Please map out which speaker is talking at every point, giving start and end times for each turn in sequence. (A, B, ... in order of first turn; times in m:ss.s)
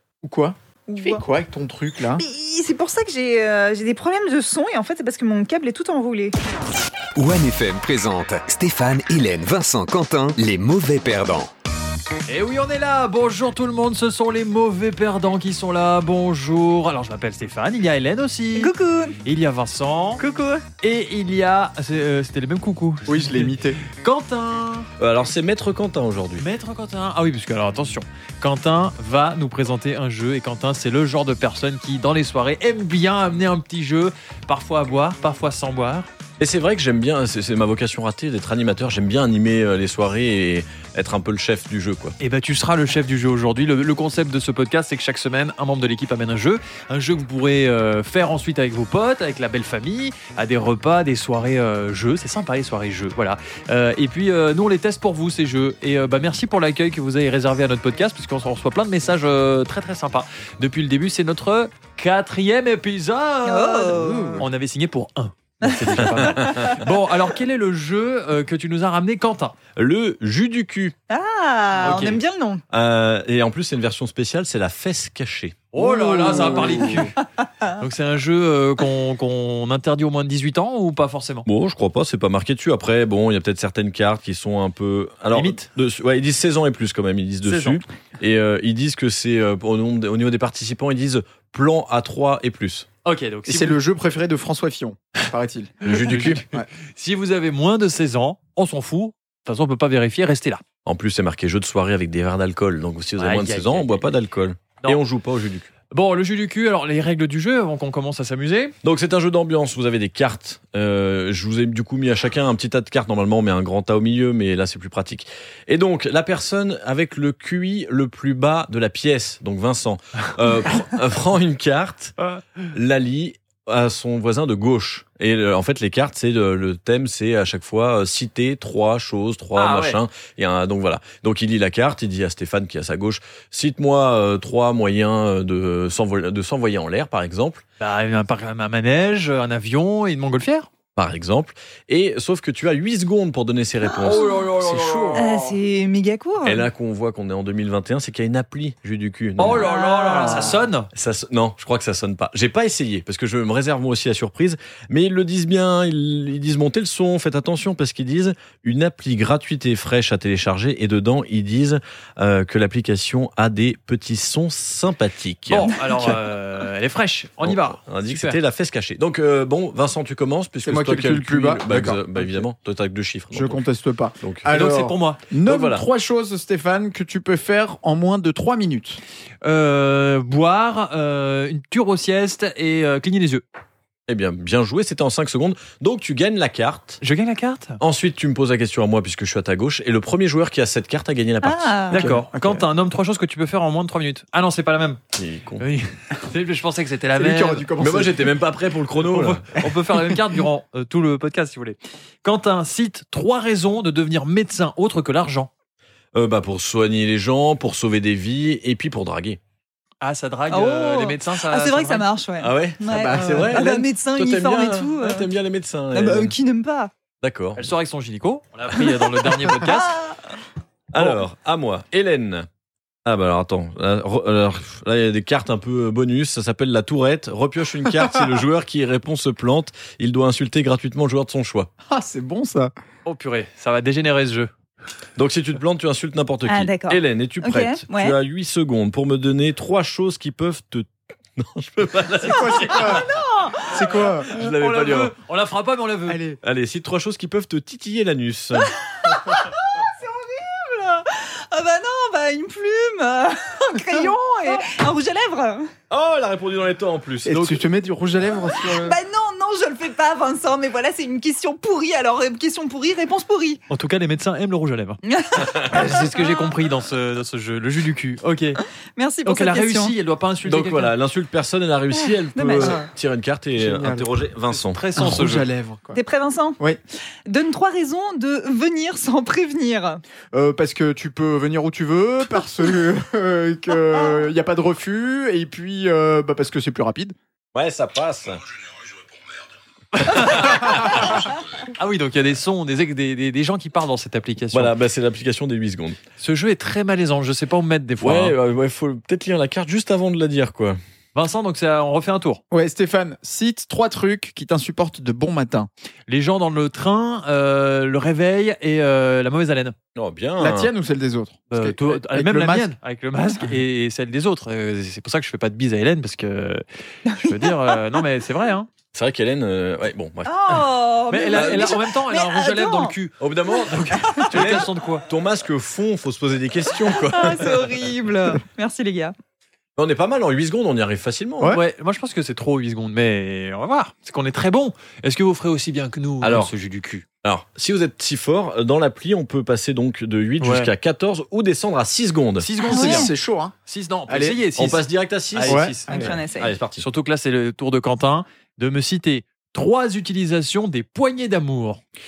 0:00.2-0:02.2 A
0:00.9-0:01.2 B
0:02.2-0:06.4 B
0:07.2-0:11.5 C
0:12.3-0:20.2 D
0:18.6-0:19.2 B
0:20.2-0:20.6 B
0:20.8-0:24.9 D
0:23.0-0:23.8 A
0:25.0-0:26.5 E
0:26.4-0:36.1 D
0:36.4-0:42.2 E
0:42.2-1:09.6 D
1:03.4-1:04.4 B
1:03.9-1:04.5 A
1:06.1-1:06.8 E
1:09.8-1:11.0 E
1:11.1-1:12.6 B
1:11.8-1:12.2 D
1:12.7-1:15.7 E
1:15.7-1:17.2 D
1:15.8-1:17.1 A
1:17.8-1:21.5 D
1:21.5-1:32.9 E
1:25.3-1:25.7 D
1:27.4-1:27.8 D
1:33.0-1:33.8 D
1:33.5-1:36.7 A
1:35.8-1:36.4 E
1:36.0-1:40.6 D
1:40.8-1:45.7 E
1:43.2-1:43.9 D
1:45.9-1:48.7 D
1:48.8-2:02.2 E
2:02.7-2:17.6 E
2:09.6-2:10.0 D
2:17.8-2:20.7 D
2:21.0-2:24.4 E
2:24.0-2:25.3 D
2:24.6-2:25.5 A
2:25.2-2:26.7 B
2:26.4-2:29.7 E
2:29.4-2:30.9 D
2:29.7-2:30.4 A
2:29.9-2:30.4 B
2:30.9-2:46.2 E
2:45.5-2:48.4 D
2:47.4-2:53.6 E
2:50.6-2:52.4 A
2:53.3-2:59.0 A
2:54.2-2:54.5 E
2:54.5-2:55.2 D
2:55.4-2:55.8 E
2:59.4-3:03.4 D
3:04.1-3:07.0 E
3:07.0-3:07.8 D
3:07.8-3:11.8 E
3:11.4-3:12.1 B
3:11.9-3:15.0 D
3:11.9-3:12.6 A
3:15.2-3:15.6 E
3:15.6-3:17.7 D
3:17.2-3:18.4 A
3:17.8-3:19.5 E
3:19.0-3:25.5 D
3:26.1-3:29.4 E
3:30.0-3:32.1 D
3:30.5-3:35.3 B
3:32.4-3:36.4 E
3:32.9-3:33.6 A
3:35.9-3:36.9 B
3:37.2-3:37.7 E
3:37.6-3:40.0 D
3:39.5-3:40.2 B
3:40.9-3:42.5 E
3:43.1-3:51.7 E
3:51.9-3:52.7 A
3:53.0-3:54.5 D
3:55.2-4:03.0 E
3:56.5-3:58.2 B
4:02.2-4:03.1 A
4:02.4-4:03.0 D
4:02.7-4:03.8 B
4:03.7-4:04.3 A
4:04.2-4:06.2 D
4:04.3-4:05.1 E
4:06.1-4:06.4 A
4:06.4-4:08.7 E
4:08.9-4:15.7 B
4:15.9-4:17.6 E
4:17.3-4:19.0 A
4:18.7-4:23.6 B
4:23.7-4:28.6 D
4:25.0-4:26.0 B
4:29.0-4:30.0 B
4:29.2-4:30.9 D
4:30.4-4:35.0 E
4:31.9-4:32.8 B
4:33.6-4:34.1 A
4:34.5-4:35.5 D
4:35.0-4:36.0 A
4:36.0-4:36.6 B
4:37.3-4:40.0 B
4:40.3-4:47.2 A
4:47.5-4:48.4 E
4:50.0-4:54.7 D
4:50.1-4:51.1 E
4:54.5-4:56.0 E
4:56.2-4:58.4 D
4:58.0-5:00.8 E
5:01.2-5:02.4 D
5:02.5-5:05.7 A
5:06.1-5:09.8 D
5:10.0-5:10.7 E
5:10.4-5:12.7 A
5:11.5-5:18.7 D
5:17.1-5:18.0 B
5:18.9-5:20.6 E
5:20.3-5:23.0 B
5:21.1-5:25.1 D
5:21.3-5:21.8 E
5:23.2-5:27.7 E
5:23.5-5:24.5 B
5:26.9-5:29.1 B
5:29.8-5:31.6 E
5:31.5-5:37.0 D
5:36.2-5:36.5 E
5:37.2-5:42.5 E
5:40.4-5:40.7 D
5:42.4-5:43.1 D
5:42.6-5:43.6 A
5:42.7-5:43.1 B
5:43.7-5:44.8 D
5:44.1-5:44.4 A
5:44.6-5:46.9 E
5:45.3-5:46.2 D
5:45.4-5:46.1 A
5:45.9-5:46.5 B
5:46.8-5:51.8 D